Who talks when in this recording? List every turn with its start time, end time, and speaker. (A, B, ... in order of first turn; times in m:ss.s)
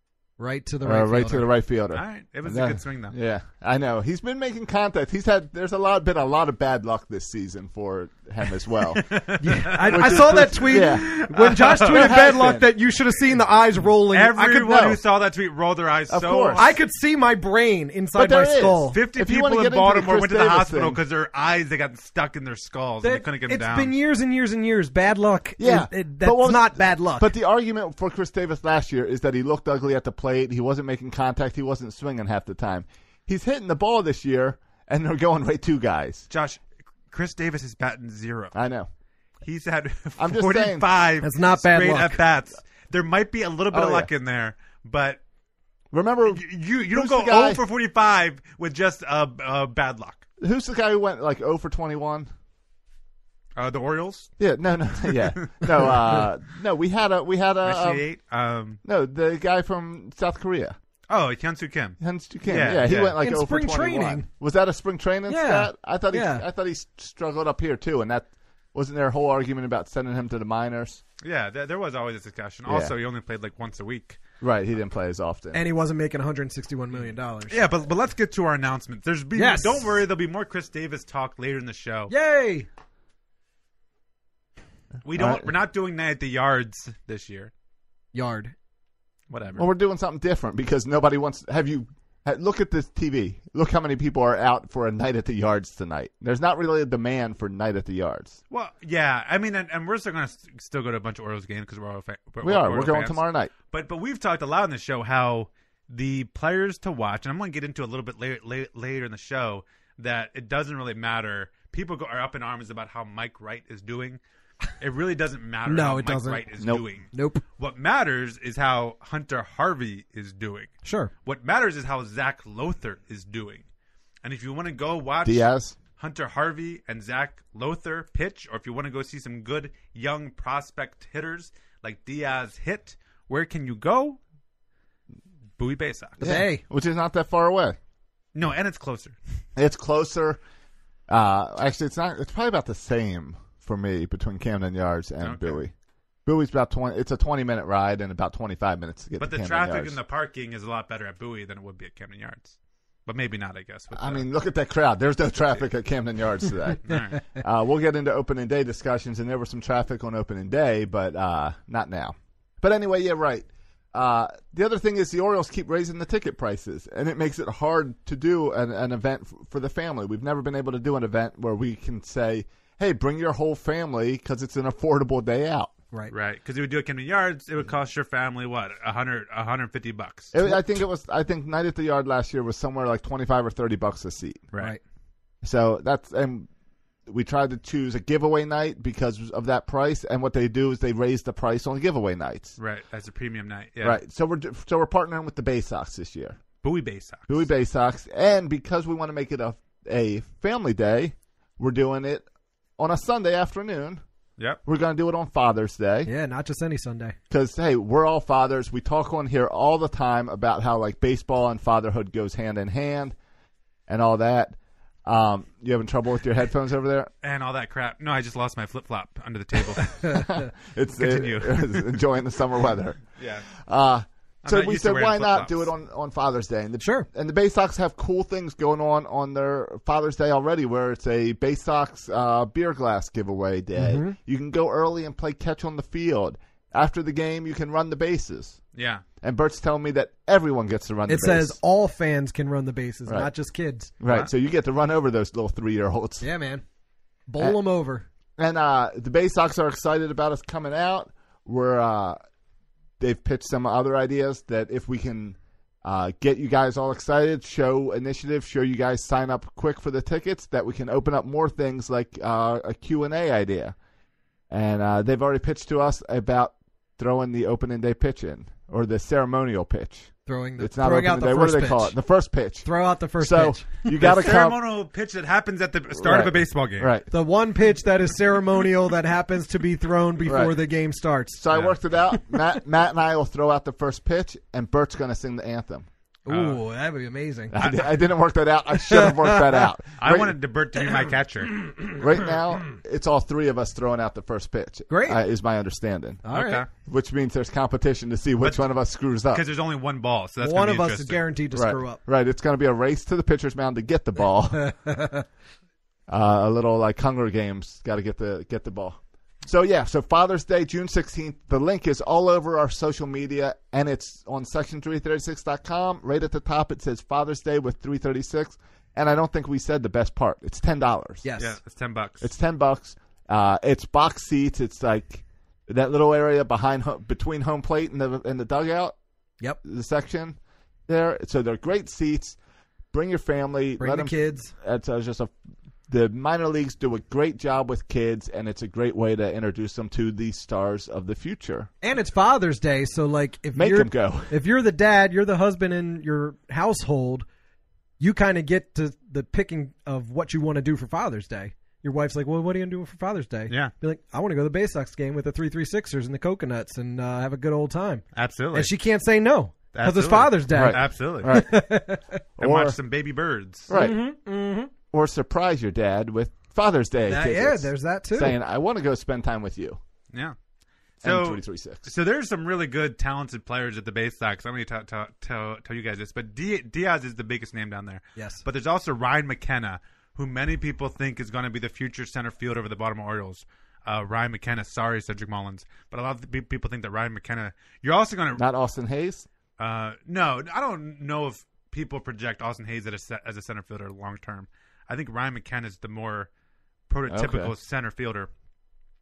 0:00.4-0:01.5 A
0:00.8-0:09.1 B
0:01.9-0:03.2 C
0:09.0-0:12.2 C
0:09.4-0:14.6 A
0:09.8-0:12.7 B
0:14.1-0:16.8 C
0:14.4-0:15.0 B
0:16.1-0:16.8 B
0:16.6-0:19.0 A
0:18.2-0:21.0 B
0:18.9-0:23.9 C
0:23.0-0:27.3 A
0:25.6-0:36.3 B
0:36.3-0:38.6 C
0:38.5-0:38.9 B
0:39.4-0:45.2 C
0:40.2-0:40.9 B
0:41.2-0:42.2 A
0:43.7-0:44.1 B
0:45.9-0:47.6 B
0:46.3-0:50.2 C
0:50.4-0:52.3 B
0:53.6-0:54.3 C
0:54.4-0:58.0 B
0:55.1-0:55.9 C
0:57.6-0:58.8 C
0:58.8-1:00.8 B
1:01.1-1:03.2 C
1:02.0-1:11.0 B
1:03.2-1:04.3 A
1:05.3-1:06.4 A
1:11.2-1:14.2 C
1:12.7-1:12.9 B
1:14.4-1:15.6 B
1:15.5-1:17.6 A
1:17.5-1:22.1 C
1:19.4-1:19.9 A
1:22.1-1:22.7 A
1:25.0-1:27.5 C
1:25.1-1:25.5 B
1:28.1-1:28.5 A
1:29.3-1:29.7 C
1:29.6-1:38.4 B
1:38.5-1:54.2 C
1:42.4-1:43.5 B
1:54.8-2:00.7 C
1:55.7-1:56.5 A
1:56.6-1:56.8 B
1:57.1-1:57.4 A
2:00.8-2:01.1 A
2:01.2-2:03.6 C
2:04.2-2:14.2 C
2:05.2-2:05.8 B
2:15.6-2:16.3 C
2:16.2-2:16.6 A
2:16.2-2:17.8 B
2:18.4-2:19.2 C
2:19.6-2:20.4 B
2:21.1-2:25.7 B
2:25.2-2:25.6 C
2:26.3-2:30.0 B
2:29.2-2:34.3 C
2:34.0-2:55.7 B
2:36.9-2:37.2 C
2:56.1-3:00.4 C
3:00.3-3:04.4 B
3:04.5-3:04.8 C
3:05.4-3:06.5 B
3:07.1-3:12.6 B
3:12.6-3:14.0 C
3:13.8-3:16.4 B
3:16.6-3:17.5 C
3:17.3-3:22.2 B
3:22.8-3:24.0 B
3:24.6-3:26.1 B
3:26.1-3:27.2 A
3:27.3-3:33.2 B
3:33.9-3:34.6 B
3:35.1-3:37.1 B
3:37.2-3:40.3 C
3:40.0-3:43.0 B
3:41.0-3:42.0 C
3:43.2-3:43.5 C
3:43.6-3:58.6 B
3:44.4-3:45.7 C
3:46.8-3:47.1 A
3:53.8-3:54.2 A
3:58.8-3:59.0 C
3:59.2-4:01.6 B
4:01.1-4:03.9 A
4:03.1-4:03.3 B
4:04.0-4:06.2 B
4:06.2-4:06.6 A
4:07.3-4:08.1 A
4:08.4-4:12.2 B
4:13.0-4:23.8 B
4:24.5-4:32.7 B
4:30.3-4:32.0 A
4:32.6-4:33.9 A
4:33.2-4:34.6 B
4:34.0-4:36.9 C
4:36.0-4:37.1 B
4:37.1-4:41.4 A
4:40.2-4:40.6 B
4:41.4-4:45.9 B
4:46.2-4:47.6 A
4:46.3-4:46.6 C
4:47.5-4:50.4 B
4:47.6-4:47.9 C
4:48.9-4:49.6 A
4:50.0-4:51.7 C
4:51.9-4:59.4 B
4:54.9-4:55.2 A
4:56.2-4:56.6 A
4:56.3-4:56.7 C
4:58.4-4:58.7 C
4:59.3-5:01.2 C
5:00.4-5:02.0 A
5:01.5-5:04.7 B
5:04.6-5:05.2 A
5:06.1-5:21.2 B
5:21.2-5:21.6 A
5:21.4-5:22.3 C
5:22.2-5:29.0 B
5:29.6-5:32.4 B
5:32.9-5:35.3 B
5:33.8-5:34.5 A
5:35.9-5:41.7 B
5:41.8-5:47.2 A
5:43.5-5:44.3 B
5:48.0-6:02.2 A
5:58.1-5:58.7 C
5:59.7-6:01.4 C
6:00.5-6:01.6 B
6:02.4-6:02.8 B
6:02.4-6:03.7 C
6:03.7-6:04.0 B
6:03.7-6:04.7 A
6:04.9-6:09.8 B
6:07.1-6:08.4 A
6:11.0-6:28.4 C
6:11.0-6:11.9 B
6:18.2-6:18.4 A
6:28.4-6:29.3 B
6:29.6-6:36.3 C
6:36.9-6:38.3 C
6:37.1-6:37.5 B